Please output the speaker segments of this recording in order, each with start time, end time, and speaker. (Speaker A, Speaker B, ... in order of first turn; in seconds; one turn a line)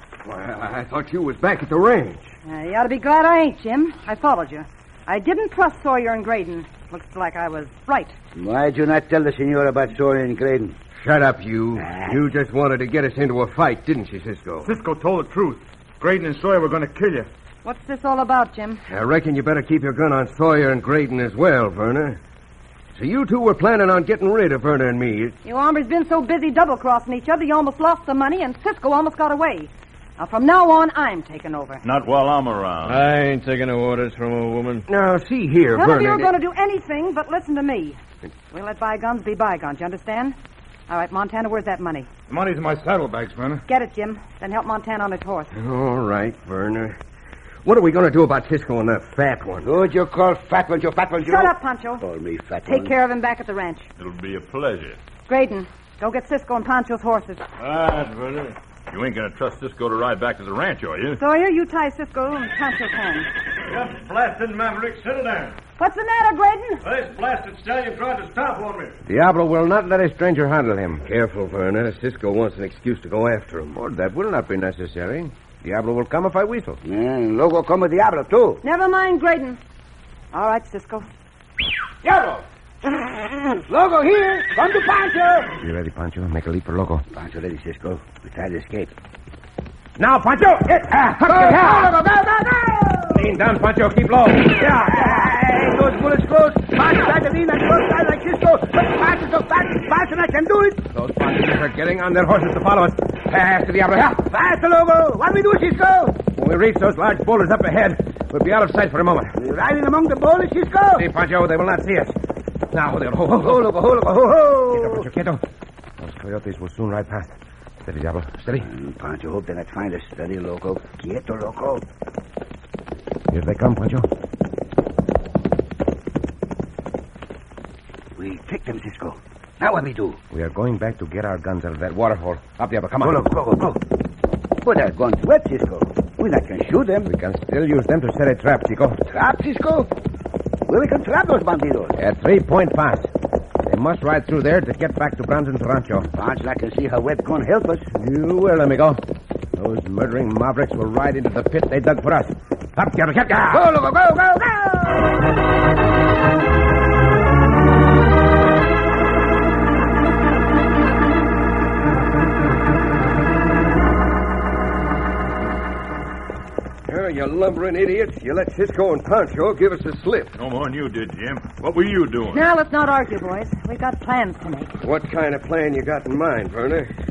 Speaker A: 0.2-2.3
Speaker B: 2.5-8.2
Speaker C: 8.3-10.8
Speaker A: 11.0-14.7
Speaker C: 11.8-12.2
Speaker D: 14.6-17.3
Speaker B: 17.6-18.8
Speaker A: 18.9-22.2
Speaker A: 22.9-25.4
Speaker B: 25.4-31.8
Speaker E: 31.8-33.1
Speaker F: 32.8-34.9
Speaker A: 34.9-36.3
Speaker B: 35.7-38.0
Speaker B: 38.5-40.4
Speaker B: 40.9-42.1
Speaker D: 42.3-43.6
Speaker B: 43.7-45.5
Speaker A: 45.5-47.0
Speaker A: 47.6-49.7
Speaker C: 49.6-52.9
Speaker B: 51.3-52.0
Speaker B: 52.7-53.9
Speaker E: 54.0-55.0
Speaker B: 55.3-57.4
Speaker F: 57.6-58.6
Speaker E: 58.9-61.2
Speaker B: 61.2-63.3
Speaker F: 63.7-65.6
Speaker B: 65.8-66.8
Speaker F: 66.8-69.0
Speaker G: 69.1-71.0
Speaker A: 71.0-73.8
Speaker G: 73.7-76.8
Speaker C: 76.8-78.6
Speaker B: 78.6-79.6
Speaker B: 80.3-81.1
Speaker C: 82.0-85.6
Speaker G: 85.6-87.0
Speaker C: 87.1-89.0
Speaker G: 90.0-92.0
Speaker C: 91.0-93.3
Speaker G: 93.1-95.3
Speaker C: 94.5-100.8
Speaker G: 100.9-104.3
Speaker C: 104.2-106.2
Speaker G: 106.3-109.4
Speaker C: 109.3-111.0
Speaker G: 111.0-112.2
Speaker G: 112.7-114.0
Speaker C: 113.4-115.0
Speaker G: 114.7-115.4
Speaker G: 116.0-117.3
Speaker G: 117.8-118.7
Speaker C: 118.6-121.8
Speaker G: 123.3-124.1
Speaker C: 128.2-130.2
Speaker G: 130.3-133.3
Speaker C: 133.0-133.8
Speaker C: 134.6-137.1
Speaker G: 137.1-139.0
Speaker C: 139.1-139.9
Speaker C: 140.7-141.9
Speaker G: 142.0-143.1
Speaker G: 143.6-146.1
Speaker C: 146.1-147.9
Speaker G: 147.9-149.0
Speaker G: 149.6-153.6
Speaker C: 153.5-155.1
Speaker A: 166.9-170.3
Speaker E: 170.4-172.4
Speaker B: 172.3-174.8
Speaker A: 174.8-176.9